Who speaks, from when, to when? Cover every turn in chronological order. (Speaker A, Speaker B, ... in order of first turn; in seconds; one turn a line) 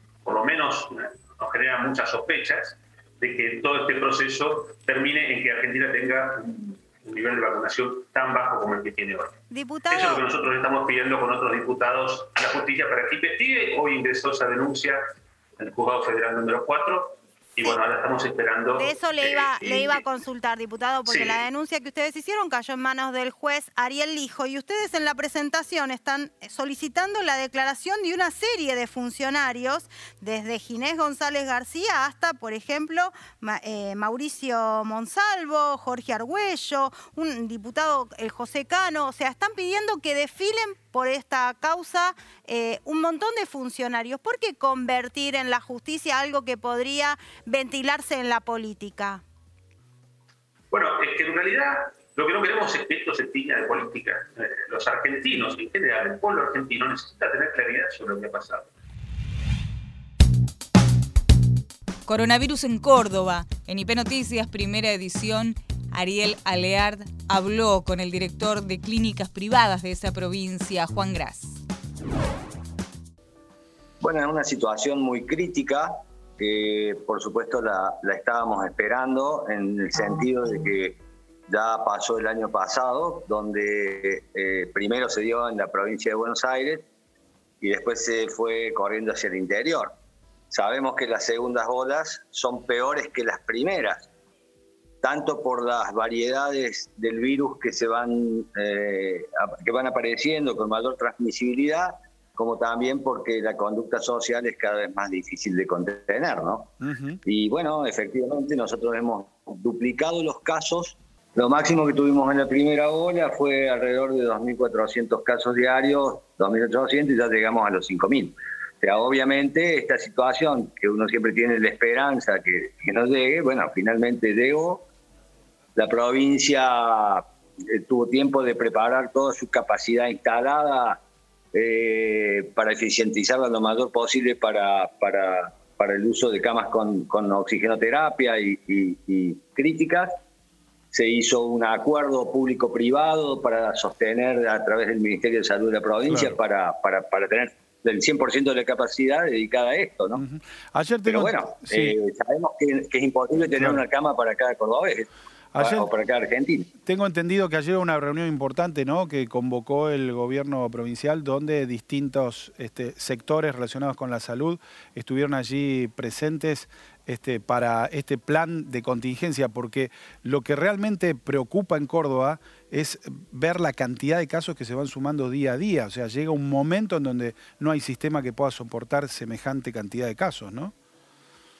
Speaker A: 0.2-9.3
Speaker B: 9.5-10.2
Speaker A: 9.9-15.0
Speaker A: 15.6-20.0
Speaker B: 18.8-49.2
Speaker A: 21.1-21.4
Speaker A: 50.7-58.7
Speaker C: 62.0-71.6
Speaker D: 74.0-86.8
Speaker D: 87.6-89.9
Speaker D: 90.5-94.1
Speaker D: 95.0-106.7
Speaker E: 106.8-107.2
Speaker D: 107.2-124.8
Speaker D: 125.8-131.0
Speaker D: 131.5-140.2
Speaker D: 140.9-150.2
Speaker E: 146.1-146.4
Speaker E: 150.1-152.0
Speaker D: 151.1-156.7
Speaker E: 153.4-153.8
Speaker E: 155.5-155.9
Speaker E: 156.8-180.7